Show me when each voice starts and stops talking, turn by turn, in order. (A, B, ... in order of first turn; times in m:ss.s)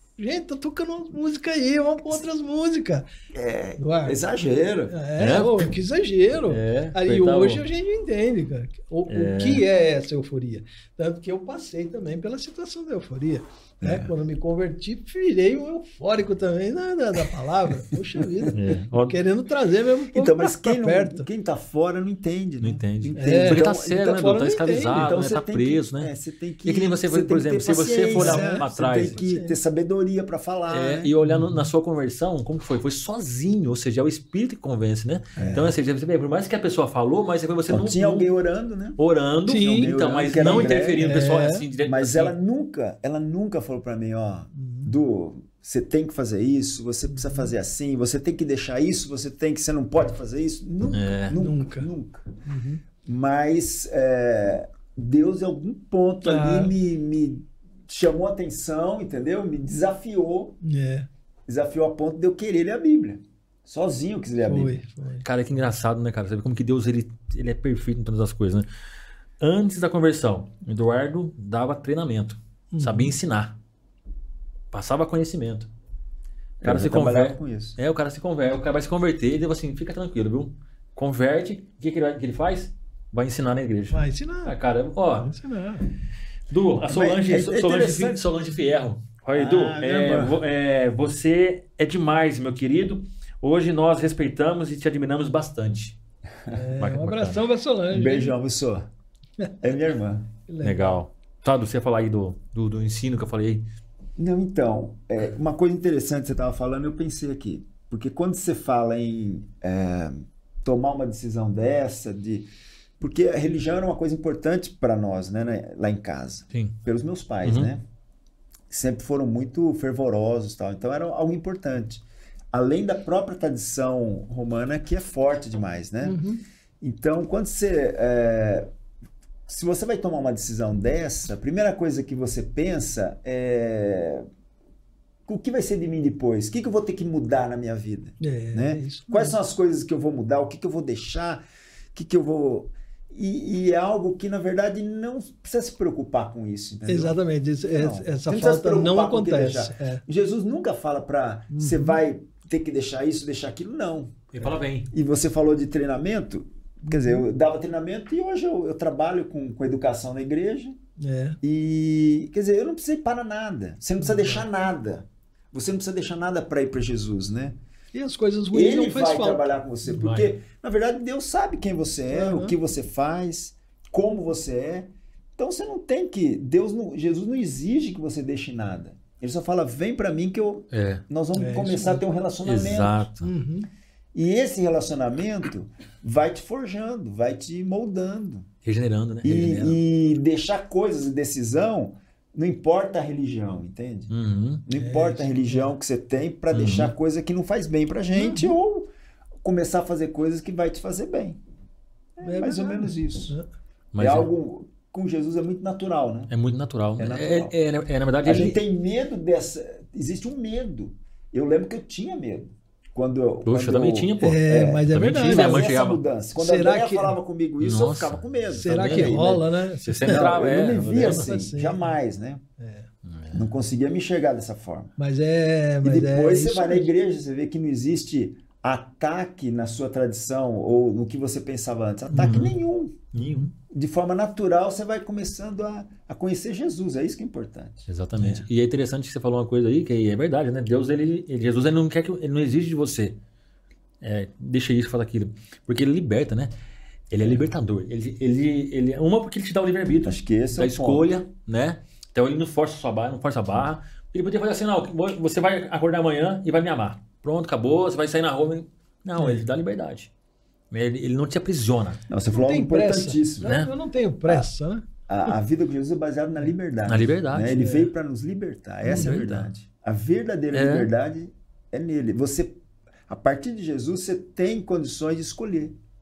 0:00.2-0:03.1 A
0:03.3-0:04.9 B
0:03.8-0:04.2 A
0:04.9-0:21.3 A
0:05.2-0:05.7 C
0:06.5-0:07.6 C
0:09.1-0:09.6 C
0:13.8-0:14.1 B
0:17.9-0:18.5 B
0:18.5-0:19.2 C
0:20.1-0:31.1 B
0:22.6-0:26.1 C
0:23.2-0:25.0 A
0:26.6-0:29.2 C
0:28.2-0:29.6 A
0:30.7-0:38.3 C
0:31.2-0:31.7 A
0:35.4-0:35.8 B
0:37.7-0:39.0 B
0:39.0-0:42.3 C
0:39.5-0:41.6 A
0:39.6-0:41.1 B
0:41.8-0:52.3 B
0:44.6-0:44.9 A
0:47.1-0:47.5 A
0:50.9-0:51.4 C
0:51.3-0:51.9 A
0:52.4-0:52.8 A
0:53.0-1:00.6 B
0:56.2-0:56.7 A
1:00.6-1:01.1 A
1:01.5-1:04.8 B
1:04.4-1:05.2 A
1:05.2-1:08.7 C
1:09.4-1:13.6 C
1:12.7-1:13.1 A
1:14.7-1:15.7 C
1:16.6-1:17.8 B
1:16.6-1:25.3 C
1:23.9-1:24.5 A
1:25.2-1:25.9 A
1:26.5-1:36.0 C
1:26.8-1:28.2 B
1:29.3-1:30.4 B
1:36.5-1:38.3 A
1:36.8-1:37.4 C
1:37.9-1:38.9 B
1:39.6-1:40.3 B
1:40.5-1:41.0 A
1:40.6-1:43.7 C
1:44.2-1:52.5 B
1:53.0-1:57.8 B
1:57.4-1:57.7 C
1:58.7-2:06.2 B
2:06.0-2:06.4 A
2:06.8-2:08.7 B
2:09.5-2:14.2 B
2:15.2-2:34.3 B
2:18.2-2:19.4 A
2:26.9-2:30.0 A
2:31.5-2:32.0 A
2:34.3-2:34.9 C
2:34.9-2:40.8 B
2:36.9-2:37.2 A
2:41.0-2:41.4 A
2:41.4-2:47.6 B
2:44.0-2:44.4 A
2:47.9-2:49.5 A
2:48.5-3:03.0 B
2:49.9-2:50.3 C
2:52.1-2:52.5 A
3:00.7-3:01.0 C
3:01.4-3:02.0 A
3:02.4-3:03.3 C
3:03.2-3:03.7 A
3:04.1-3:08.5 B
3:08.6-3:09.8 C
3:09.2-3:14.1 B
3:14.1-3:14.6 C
3:14.6-3:18.9 B
3:14.7-3:15.7 A
3:16.5-3:16.9 C
3:18.1-3:18.5 A
3:19.4-3:21.4 B
3:22.2-3:23.4 B
3:22.2-3:23.5 A
3:23.9-3:24.3 C
3:24.0-3:26.3 B
3:26.3-3:28.6 C
3:27.0-3:27.5 B
3:28.2-3:39.4 B
3:33.4-3:36.0 C
3:34.2-3:35.7 A
3:36.4-3:37.2 A
3:37.6-3:39.2 C
3:38.5-3:40.3 A
3:39.8-3:41.3 C
3:40.0-3:42.4 B
3:41.0-3:41.9 A
3:42.6-3:42.9 A
3:43.0-3:43.5 C
3:43.3-3:44.9 B
3:45.0-3:46.9 A
3:45.8-3:53.1 B
3:52.1-3:52.5 A
3:52.1-3:52.6 C
3:53.1-3:53.5 C
3:53.2-3:53.5 A
3:53.6-3:57.9 B
3:57.9-4:03.2 C
3:58.2-3:58.4 A
4:04.0-4:06.5 C
4:07.1-4:20.1 C
4:07.2-4:07.4 B
4:10.0-4:11.1 B
4:20.7-4:22.0 C
4:22.1-4:23.5 B
4:22.3-4:24.8 A
4:23.4-4:23.7 C
4:25.1-4:35.8 B
4:26.9-4:27.7 C
4:27.5-4:27.9 A
4:28.8-4:29.2 A
4:28.8-4:29.5 C
4:30.5-4:30.9 C